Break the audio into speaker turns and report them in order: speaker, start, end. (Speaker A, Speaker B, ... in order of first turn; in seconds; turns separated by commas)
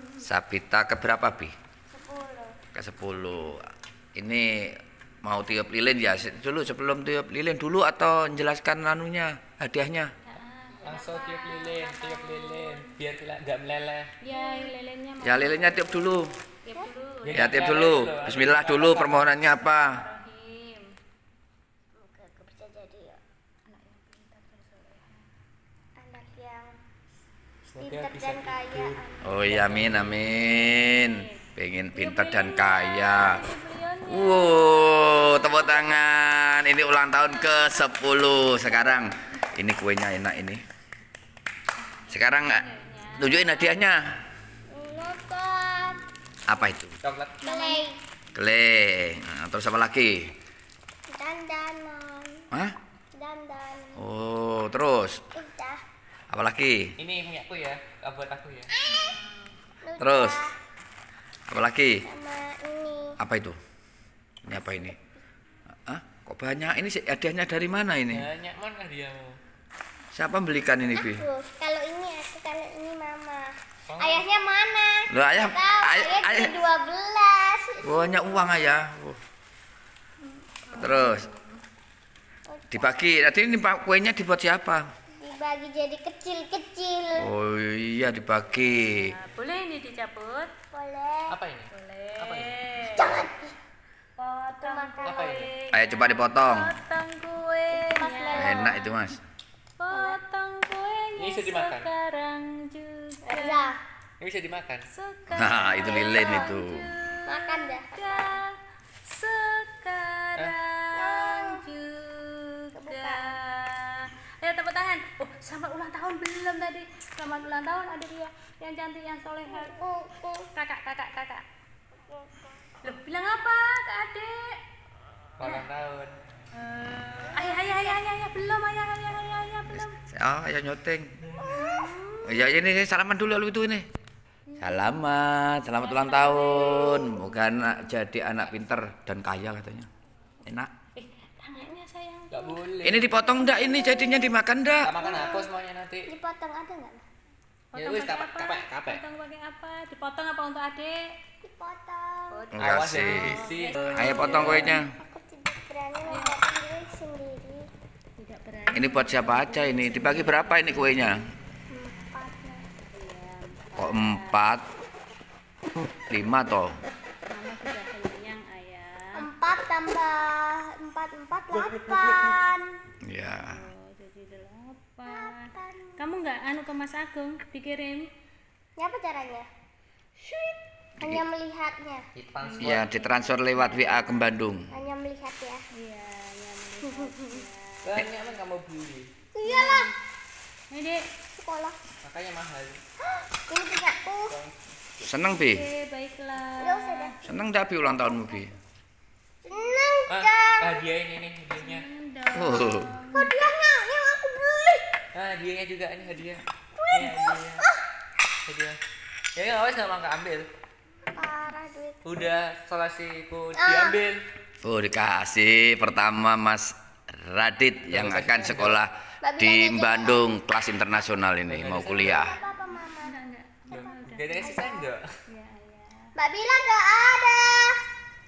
Speaker A: 0.2-1.5, Speaker B: 1.9-2.6, Speaker A: 2.7-10.1, Speaker C: 10.2-12.9, Speaker D: 10.8-14.1, Speaker C: 14.2-17.6, Speaker B: 14.3-14.8, Speaker A: 15.2-16.4, Speaker D: 17.2-19.4, Speaker A: 17.3-20.0, Speaker C: 19.5-20.9, Speaker B: 21.9-23.2, Speaker C: 23.7-25.2, Speaker B: 26.0-26.7, Speaker D: 27.7-30.3, Speaker B: 27.8-29.5, Speaker A: 29.2-33.4, Speaker C: 30.4-31.4, Speaker C: 31.9-35.7, Speaker A: 34.1-40.6, Speaker C: 37.5-37.8, Speaker C: 41.8-43.7, Speaker A: 42.1-44.0, Speaker B: 44.7-46.0, Speaker A: 46.5-47.0, Speaker D: 47.0-47.4, Speaker C: 47.4-47.9, Speaker B: 47.4-48.0, Speaker A: 48.4-50.3, Speaker B: 51.1-52.5, Speaker A: 52.5-52.8, Speaker B: 53.1-54.0, Speaker A: 54.0-55.3, Speaker B: 55.4-55.8, Speaker A: 56.3-57.0, Speaker D: 57.0-58.7, Speaker B: 58.8-59.1, Speaker C: 58.9-59.5, Speaker B: 59.8-60.5, Speaker A: 60.0-60.5, Speaker A: 61.5-62.1, Speaker B: 62.0-63.2, Speaker A: 63.2-63.6, Speaker A: 64.5-65.0, Speaker A: 65.9-68.3, Speaker D: 68.1-69.4, Speaker A: 70.1-71.2, Speaker B: 70.9-78.2, Speaker D: 73.9-74.2, Speaker A: 75.1-76.5, Speaker A: 77.8-79.2, Speaker C: 80.2-81.6, Speaker A: 80.8-81.3, Speaker B: 82.5-82.9, Speaker A: 82.7-84.9, Speaker B: 85.2-87.3, Speaker A: 87.2-89.2, Speaker C: 88.8-90.5, Speaker B: 90.7-91.3, Speaker D: 91.3-92.5, Speaker C: 91.7-93.2, Speaker B: 92.8-93.5, Speaker C: 94.2-99.0, Speaker B: 94.6-95.5, Speaker D: 95.1-95.4, Speaker A: 95.7-96.8, Speaker B: 97.7-98.7, Speaker A: 98.3-99.2, Speaker C: 99.8-103.7, Speaker B: 99.9-100.2, Speaker D: 101.2-101.9, Speaker B: 103.2-103.8, Speaker D: 104.2-104.9, Speaker C: 104.9-119.8, Speaker A: 105.3-106.8, Speaker B: 105.8-106.5, Speaker B: 107.3-108.4, Speaker B: 110.9-111.7, Speaker B: 112.8-113.3, Speaker B: 119.5-120.5, Speaker C: 120.5-121.5, Speaker C: 122.8-124.6, Speaker D: 125.4-126.2, Speaker C: 125.4-125.7, Speaker C: 126.5-130.0, Speaker A: 129.7-131.1, Speaker C: 131.4-132.4, Speaker B: 131.5-131.9, Speaker A: 132.2-133.9, Speaker C: 134.5-135.0, Speaker A: 134.6-139.9, Speaker C: 135.8-138.5, Speaker A: 140.4-140.7, Speaker C: 141.0-142.6, Speaker D: 142.3-143.3, Speaker A: 142.8-145.0, Speaker C: 143.6-144.1, Speaker D: 144.8-146.1, Speaker B: 144.9-145.5, Speaker B: 146.1-147.1, Speaker C: 147.7-151.1, Speaker D: 147.8-149.0, Speaker B: 151.4-152.6, Speaker C: 152.3-154.8, Speaker A: 152.5-153.4, Speaker D: 152.6-154.8, Speaker A: 153.9-154.9, Speaker B: 154.8-157.7, Speaker C: 156.0-156.4, Speaker C: 158.2-161.1, Speaker A: 158.7-161.2, Speaker B: 161.7-162.7, Speaker C: 162.9-164.5, Speaker A: 163.8-164.7, Speaker A: 166.1-166.8, Speaker C: 167.3-169.3, Speaker B: 169.1-172.7, Speaker A: 173.0-173.6, Speaker C: 173.3-178.1, Speaker B: 175.1-176.0, Speaker B: 178.8-179.5, Speaker B: 181.0-182.1, Speaker D: 182.2-182.8, Speaker C: 182.4-184.3, Speaker A: 182.6-184.7, Speaker B: 184.7-185.7, Speaker C: 185.8-188.3, Speaker B: 187.0-187.4, Speaker D: 187.8-189.1, Speaker B: 189.3-189.9, Speaker C: 189.4-189.9, Speaker C: 190.7-191.1, Speaker B: 191.4-191.8, Speaker D: 192.0-192.8, Speaker B: 193.0-194.4, Speaker A: 195.0-195.7, Speaker C: 195.3-197.2, Speaker B: 196.6-197.2, Speaker A: 197.2-198.5, Speaker B: 199.4-200.9, Speaker D: 200.1-201.9, Speaker C: 201.6-203.3, Speaker A: 202.3-202.9, Speaker B: 203.1-204.9, Speaker D: 205.2-207.7, Speaker B: 206.8-207.8, Speaker D: 208.4-208.8, Speaker D: 209.3-210.5, Speaker B: 211.2-212.0, Speaker D: 212.1-214.2, Speaker B: 213.6-214.0, Speaker A: 214.6-222.3, Speaker D: 217.9-218.8, Speaker B: 219.2-220.3, Speaker D: 221.5-222.3, Speaker B: 222.0-223.2, Speaker C: 222.7-224.7, Speaker D: 223.7-225.0, Speaker B: 223.8-224.8, Speaker C: 225.3-226.1, Speaker B: 226.2-227.8